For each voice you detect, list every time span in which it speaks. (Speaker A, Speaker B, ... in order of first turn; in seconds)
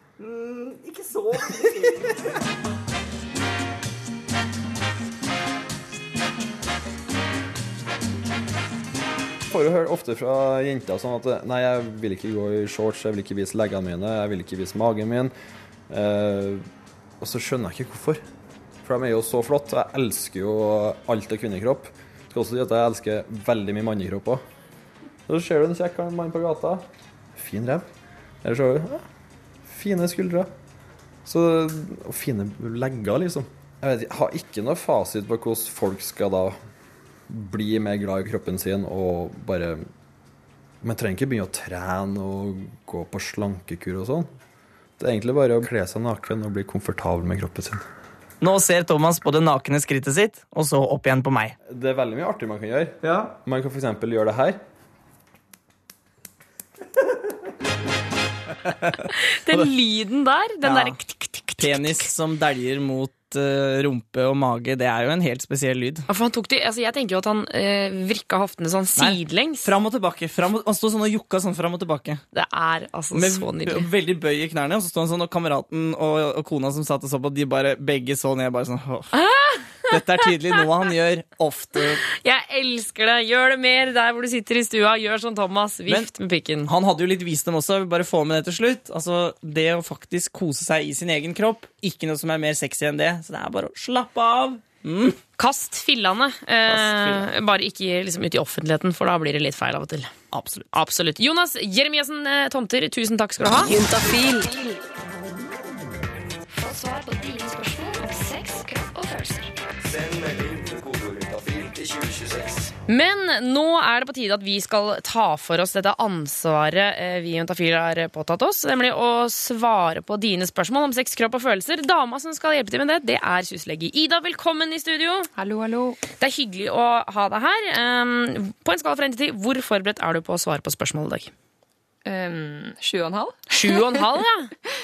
Speaker A: 0.2-2.3, 53.0-53.3
Speaker B: 9.5-15.3, 15.9-16.6, 17.2-18.2, 18.8-24.4, 25.3-26.8, 27.4-27.8, 28.4-29.0, 29.6-30.5, 31.2-36.6, 37.3-39.9, 40.8-44.3, 45.0-47.8, 51.7-54.6
Speaker C: 48.4-51.5, 60.6-61.0, 61.6-66.1, 69.0-72.2, 73.1-79.1, 79.9-82.0, 86.7-95.2, 96.7-97.2, 100.3-100.7
Speaker D: 59.1-62.1, 66.1-69.7, 72.3-73.8, 79.1-80.3, 82.1-86.7, 95.4-100.1, 100.7-103.8, 112.9-125.3, 126.2-131.3, 133.5-134.5
Speaker E: 106.6-109.4
Speaker F: 125.3-126.0, 132.0-133.5